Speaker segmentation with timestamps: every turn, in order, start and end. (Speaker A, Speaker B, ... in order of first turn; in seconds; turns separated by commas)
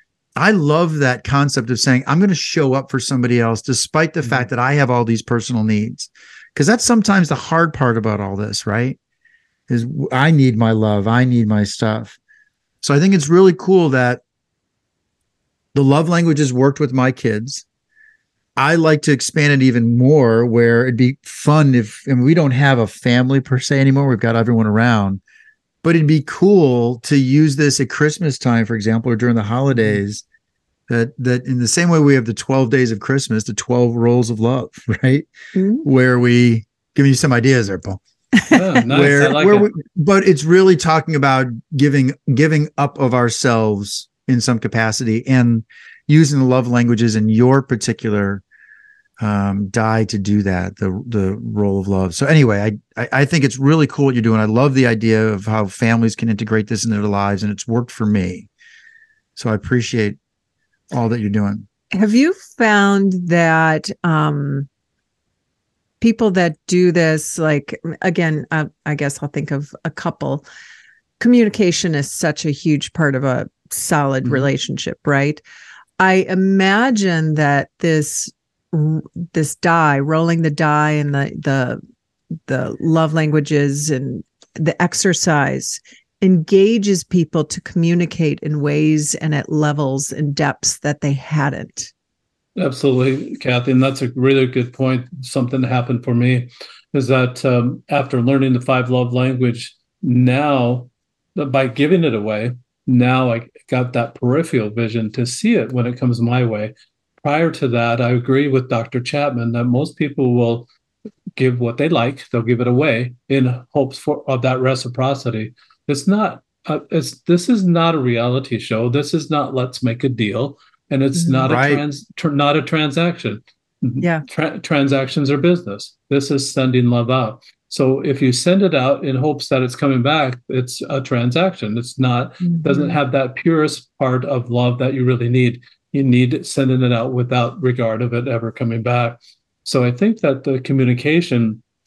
Speaker A: 0.4-9.0, Speaker A: 9.7-12.2, Speaker A: 12.8-14.2, Speaker A: 15.7-17.6, Speaker A: 18.6-25.2, Speaker A: 25.8-30.2, Speaker A: 30.9-35.3, Speaker B: 35.5-35.9, Speaker A: 35.8-38.0, Speaker C: 38.5-39.7, Speaker A: 38.9-48.4, Speaker A: 49.2-58.5, Speaker A: 59.4-60.2, Speaker A: 60.9-61.7, Speaker B: 61.9-64.7, Speaker B: 66.0-70.5, Speaker B: 71.2-75.4, Speaker C: 74.2-74.5, Speaker B: 76.0-81.8, Speaker B: 82.5-91.9, Speaker C: 92.6-110.7, Speaker C: 111.4-141.6, Speaker B: 121.2-121.5, Speaker A: 121.5-121.8, Speaker B: 132.4-133.0